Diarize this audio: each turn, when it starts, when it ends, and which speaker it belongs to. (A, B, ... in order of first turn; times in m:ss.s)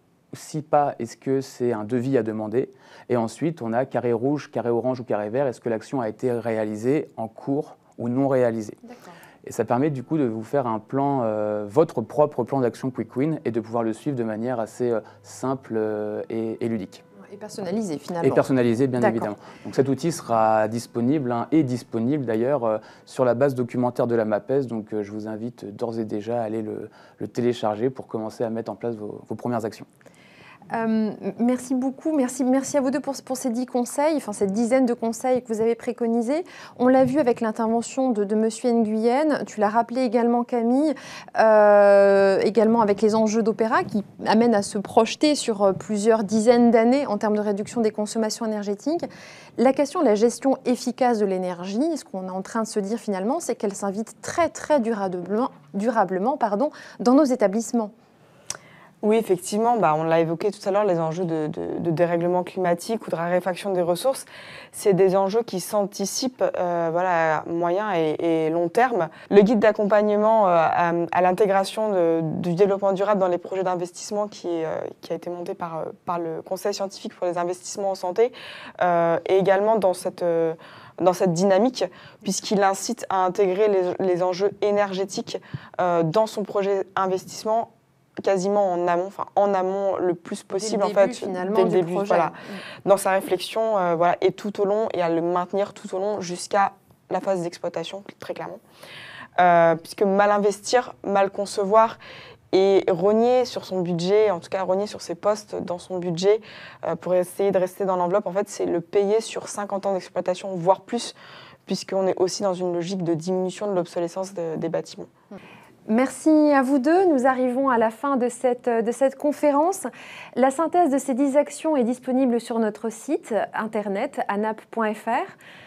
0:00.3-0:08.8 A
0:08.8-0:09.2 B
0:09.4-0:17.0 A
0:17.2-0:19.3 B
0:18.2-0:29.9 A
0:30.7-0:49.0 B
0:49.6-0:57.9 B
0:59.0-1:27.7 C
1:28.2-1:38.6 C
1:30.5-1:32.6 B
1:39.4-1:42.0 C
1:42.5-1:51.1 C
1:51.7-1:55.1 C
1:55.9-2:05.4 B